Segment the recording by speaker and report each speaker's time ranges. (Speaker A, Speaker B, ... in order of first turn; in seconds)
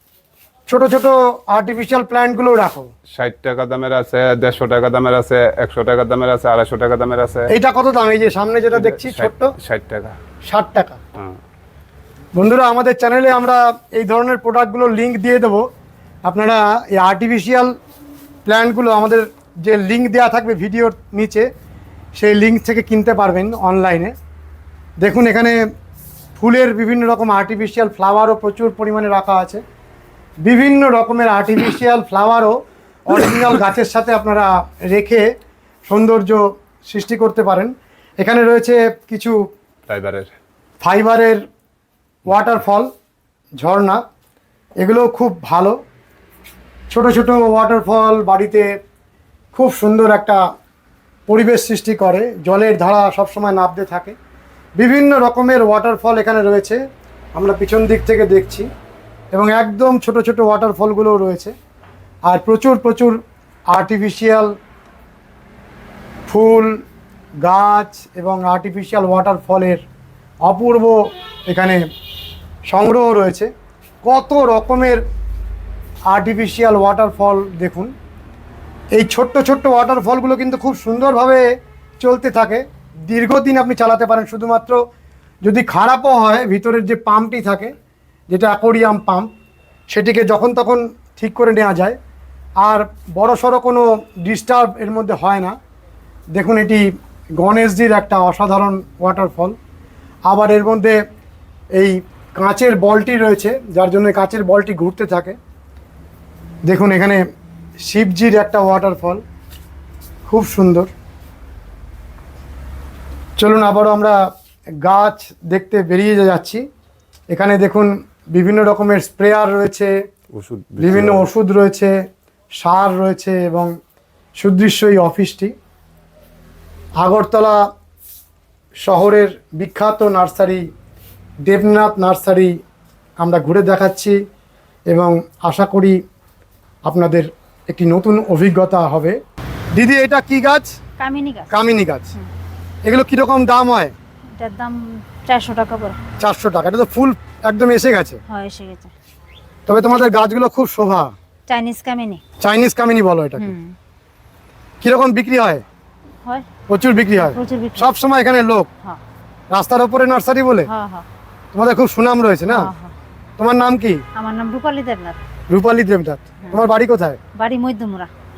Speaker A: 0.7-2.9, 7.5-9.5, 10.5-11.0, 12.3-15.7, 16.2-17.7, 18.4-21.5, 22.1-24.1, 25.0-25.6, 26.4-29.6, 30.4-35.3, 35.9-39.4, 40.8-41.5, 42.2-42.9, 43.6-44.0, 44.8-45.8, 46.9-48.7, 49.5-50.4, 51.3-54.1, 54.8-56.8, 57.3-58.7, 59.3-61.5, 62.3-64.5, 66.3-66.8, 67.4-69.8, 70.4-71.8, 72.7-73.5, 74.0-75.0, 76.1-77.9, 78.9-81.5, 82.0-84.8, 85.4-87.7, 88.3-89.3, 89.9-92.0, 92.6-95.6, 96.3-99.6, 100.2-101.0, 101.7-105.3, 106.7-107.2, 107.8-109.2, 110.3-110.9, 113.4-114.2, 114.8-116.6, 117.3-119.9, 120.8-122.0, 122.6-123.7, 124.4-125.5, 127.0-127.7, 128.8-130.7, 131.4-132.6, 133.2-134.2, 134.9-136.0, 136.8-139.2, 139.7-140.8, 141.5-142.1, 142.8-143.9, 146.2-148.2, 149.7-151.1, 152.4-153.5, 154.8-155.6, 156.7-158.7, 159.5-160.7, 161.5-162.7, 163.4-164.0, 165.5-167.2
Speaker B: 3.1-7.5, 8.7-10.1, 39.9-40.3, 120.3-121.3
Speaker C: 141.0-141.6, 144.3-146.0, 148.3-148.9, 151.5-152.2, 153.4-153.7, 157.1-157.9, 160.7-161.0, 162.5-162.9, 164.2-165.2, 167.3-168.1